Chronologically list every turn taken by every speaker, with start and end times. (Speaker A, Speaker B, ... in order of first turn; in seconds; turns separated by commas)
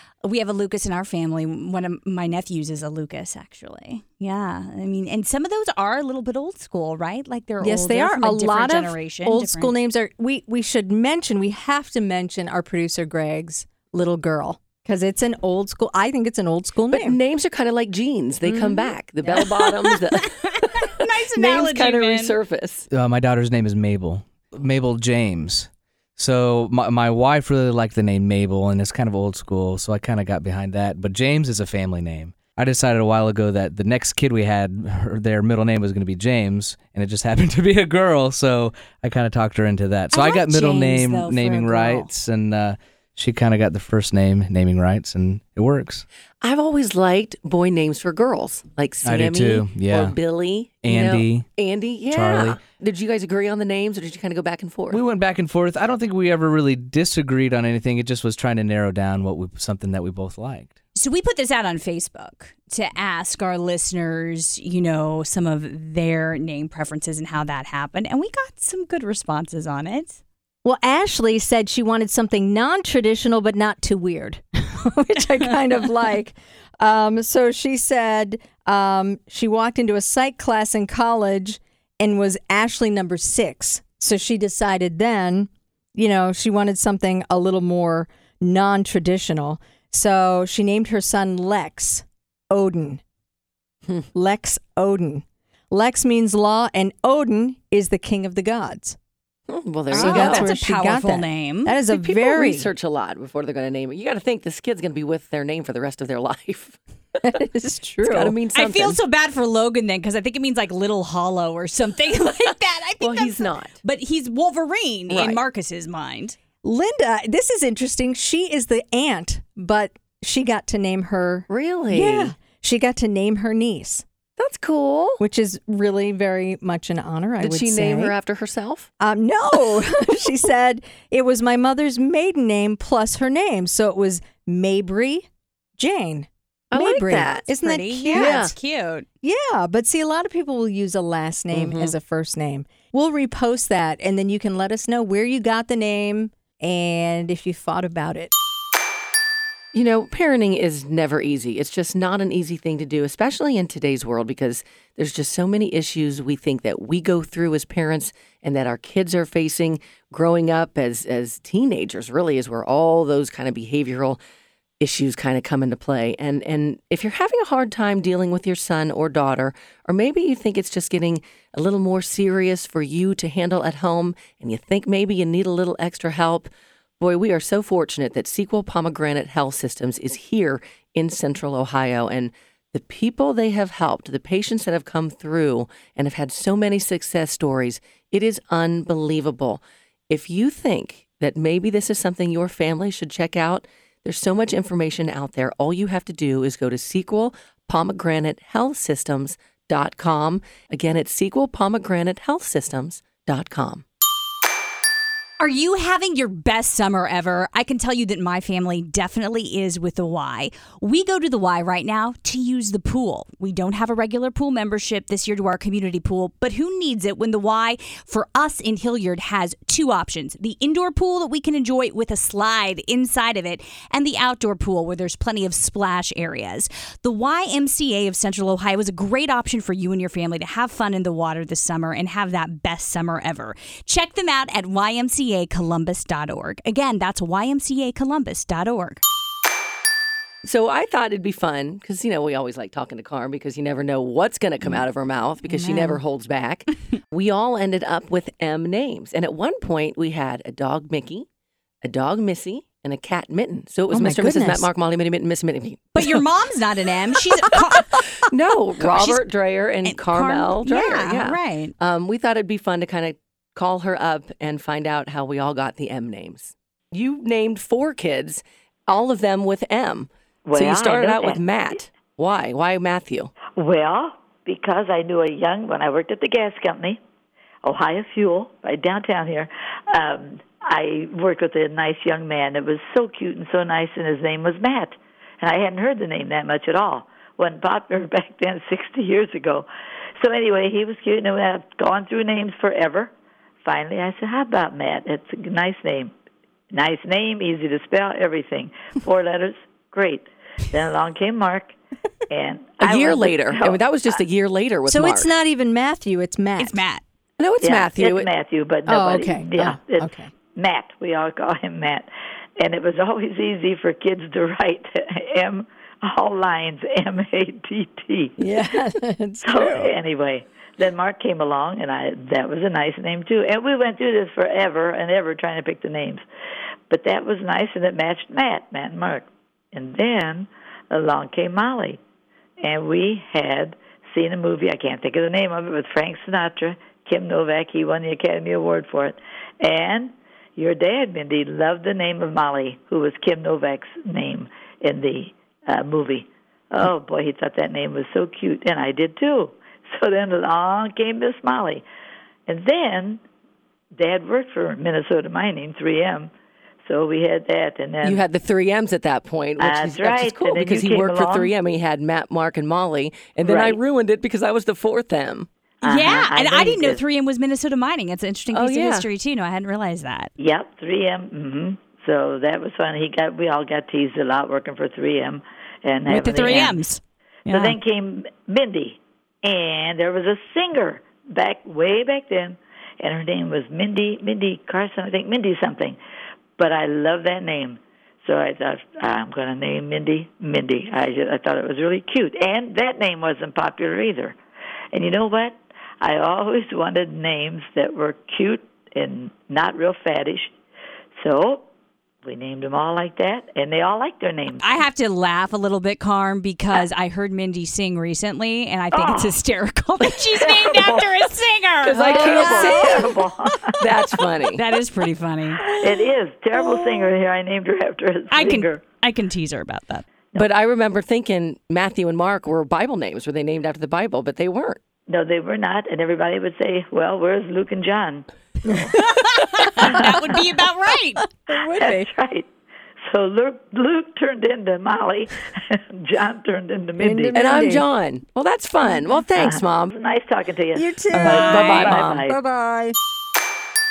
Speaker A: 0.2-9.7, Speaker B: 7.6-17.2, Speaker C: 16.9-22.9, Speaker B: 18.4-19.4, Speaker A: 19.3-22.4, Speaker D: 22.9-46.0, Speaker A: 40.1-42.1, Speaker B: 41.2-42.0, Speaker C: 46.4-55.0, Speaker D: 49.0-50.2, Speaker D: 50.8-51.5, Speaker D: 52.1-52.6, Speaker D: 54.9-60.7, Speaker A: 60.9-70.2, Speaker B: 70.6-93.0, Speaker B: 94.1-99.0, Speaker C: 99.5-100.5, Speaker B: 99.9-102.7, Speaker A: 99.9-101.8, Speaker C: 101.9-106.8, Speaker B: 107.2-108.4, Speaker C: 108.0-109.0, Speaker A: 108.5-116.4, Speaker C: 113.0-113.7, Speaker C: 115.1-115.4, Speaker B: 116.6-124.0, Speaker C: 121.5-122.3, Speaker C: 124.4-125.2, Speaker B: 125.2-128.2, Speaker C: 127.4-128.9, Speaker B: 129.0-138.5, Speaker C: 136.7-137.4, Speaker A: 137.5-139.1, Speaker C: 138.1-138.5, Speaker B: 139.2-148.3, Speaker C: 141.5-141.9, Speaker C: 149.7-164.2, Speaker C: 164.8-203.8, Speaker A: 205.4-239.0, Speaker C: 240.4-251.2, Speaker B: 245.4-246.0, Speaker C: 251.8-256.2, Speaker B: 253.9-254.7, Speaker A: 255.9-258.2, Speaker C: 258.3-273.3, Speaker A: 258.8-259.3, Speaker A: 259.8-261.7, Speaker E: 270.4-271.4, Speaker E: 273.6-277.0, Speaker E: 277.6-289.7, Speaker E: 290.2-293.1, Speaker E: 293.6-296.1, Speaker E: 296.7-301.7, Speaker E: 302.3-303.8, Speaker C: 302.8-305.3, Speaker B: 304.9-306.8, Speaker A: 306.6-307.0, Speaker C: 307.4-308.3, Speaker E: 307.6-312.1, Speaker B: 308.9-310.3, Speaker E: 312.6-318.4, Speaker B: 318.4-319.9, Speaker E: 319.4-326.2, Speaker E: 326.9-332.0, Speaker E: 332.6-351.8, Speaker E: 352.5-353.2, Speaker E: 353.9-356.3, Speaker E: 356.8-358.2, Speaker C: 358.0-365.5, Speaker E: 359.6-361.5, Speaker E: 363.4-363.8, Speaker E: 365.8-367.0, Speaker A: 365.8-370.3, Speaker C: 368.5-369.1, Speaker E: 370.4-376.8, Speaker A: 376.1-377.8, Speaker E: 377.5-386.0, Speaker E: 386.6-394.4, Speaker E: 394.9-400.5, Speaker E: 401.2-401.6, Speaker E: 402.2-404.6, Speaker A: 404.6-412.8, Speaker E: 408.9-409.4, Speaker E: 410.3-411.2, Speaker C: 411.8-413.1, Speaker B: 412.0-413.1, Speaker E: 412.3-413.8, Speaker C: 413.8-414.6, Speaker A: 414.5-415.6, Speaker B: 415.6-416.0, Speaker E: 415.8-418.8, Speaker B: 416.5-417.1, Speaker A: 418.3-420.0, Speaker C: 420.4-424.8, Speaker E: 425.1-428.9, Speaker A: 428.9-431.2, Speaker E: 429.8-430.2, Speaker B: 431.4-432.1, Speaker E: 431.5-432.4, Speaker E: 433.1-437.5, Speaker B: 437.0-437.9, Speaker C: 437.3-439.9, Speaker E: 439.4-442.4, Speaker B: 440.7-442.9, Speaker C: 441.1-442.3